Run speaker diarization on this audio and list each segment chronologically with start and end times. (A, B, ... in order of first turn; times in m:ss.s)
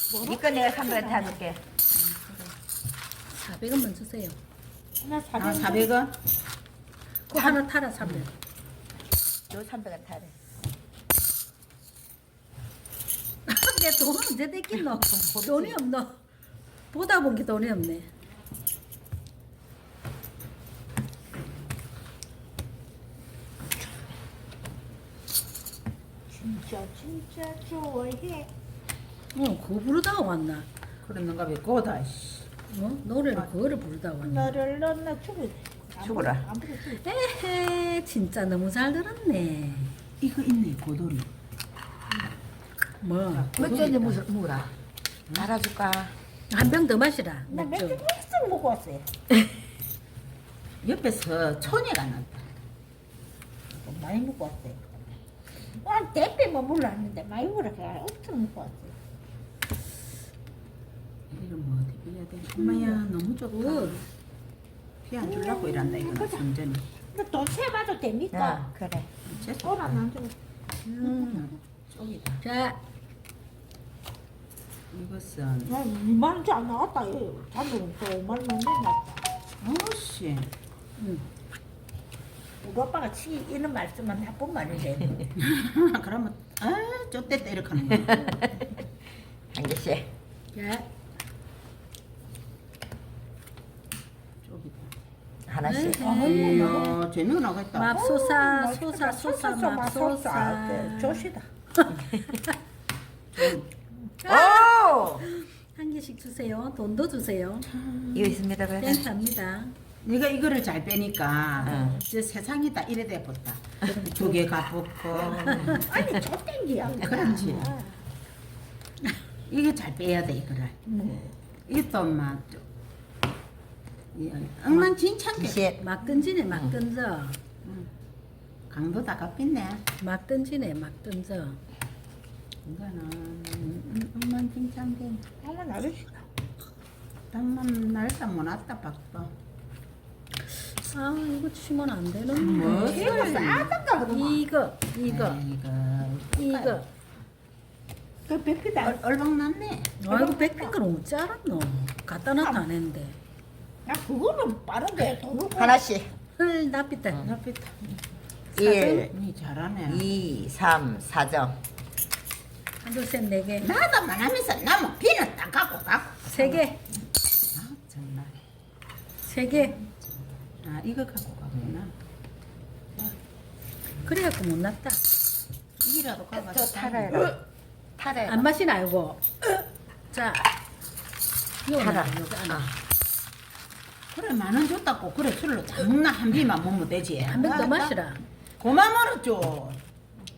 0:00.1-0:01.4 A
0:00.2-0:01.8 B
0:02.2-0:02.5 C
0:03.3-0:04.4 D
0:05.0-0:05.9 A
0:05.4-0:06.1 C
0:07.3-0:08.3 D
0:09.5-0:10.4 B
0:13.5-0:16.2 D
0:14.8-0:15.8 B
0:16.9-0:18.1 D
0:26.3-0:28.5 A
0:29.3-0:30.7 D
0:31.0-0:32.5 C
0:32.7-0:34.5 D
0:34.2-0:37.0 A
0:36.0-0:36.4 B
0:37.0-0:40.0 D
0:40.2-0:41.3 C
0:43.0-0:43.5 D
0:43.3-0:44.2 C
0:43.6-0:44.7 B
0:45.4-0:46.1 B
0:46.5-0:48.0 D
0:47.5-0:49.1 A
0:50.8-0:52.5 C
0:53.7-0:54.8 A
0:55.8-0:59.0 A
1:01.3-1:04.1 C
1:02.6-1:03.0 D
1:03.5-1:04.0 D
1:05.0-1:06.9 C
1:05.2-1:06.5 A
1:07.1-1:08.7 A
1:08.3-1:09.1 B
1:09.2-1:10.0 C
1:09.6-1:10.3 A
1:10.9-1:11.5 D
1:11.0-1:12.4 C
1:12.4-1:12.8 D
1:14.9-1:15.8 C
1:15.7-1:19.2 A
1:19.6-1:20.5 C
1:21.0-1:21.2 D
1:22.6-1:25.2 A
1:25.4-1:28.3 C
1:28.1-1:28.7 B
1:29.5-1:30.1 B
1:30.5-1:30.8 D
1:34.4-1:34.9 C
1:35.5-1:36.0 B
1:35.7-1:37.0 D
1:35.9-1:36.9 A
1:36.1-1:37.9 C
1:37.7-1:41.3 D
1:37.9-1:41.5 A
1:41.8-1:42.5 D
1:43.4-1:43.7 C
1:44.2-1:47.7 D
1:44.3-1:45.3 B
1:47.7-1:48.4 C
1:48.2-1:49.0 B
1:48.8-1:49.7 D
1:50.0-1:55.9 C
1:51.6-1:52.0 B
1:53.9-1:54.4 D
1:55.1-1:55.9 B
1:55.3-1:55.8 D
1:55.8-1:58.0 A
1:57.0-1:57.7 C
1:59.5-2:00.9 C
2:00.9-2:01.2 A
2:01.7-2:02.6 C
2:04.1-2:05.6 C
2:05.4-2:05.8 B
2:05.8-2:07.4 D
2:08.7-2:09.8 C
2:10.0-2:11.6 D
2:12.6-2:15.2 C
2:15.4-2:16.3 A
2:17.3-2:19.3 C
2:20.5-2:25.4 D
2:22.4-2:23.8 C
2:22.6-2:24.4 A
2:25.1-2:26.8 C
2:26.4-2:26.8 D
2:28.3-2:29.0 A
2:28.8-2:30.0 C
2:30.0-2:33.2 D
2:30.0-2:30.8 A
2:32.4-2:32.6 A
2:33.9-2:35.8 A
2:35.6-2:36.1 B
2:36.4-2:37.3 D
2:37.2-2:38.0 C
2:38.6-2:39.1 D
2:38.6-2:39.1 B
2:39.1-2:40.1 C
2:39.9-2:41.6 B
2:42.8-2:43.7 D
2:43.6-2:46.6 C
2:46.2-2:46.8 D
2:47.6-2:48.3 C
2:49.2-2:49.8 D
2:49.5-2:50.1 C
2:50.6-2:51.9 C
2:54.0-2:55.0 D
2:55.8-2:57.4 C
2:56.4-2:57.4 B
2:58.0-2:58.5 B
2:58.3-2:59.2 D
3:00.1-3:00.4 D
3:01.6-3:02.7 D
3:01.8-3:02.8 B
3:04.1-3:08.0 C
3:07.3-3:08.2 D
3:08.6-3:09.8 C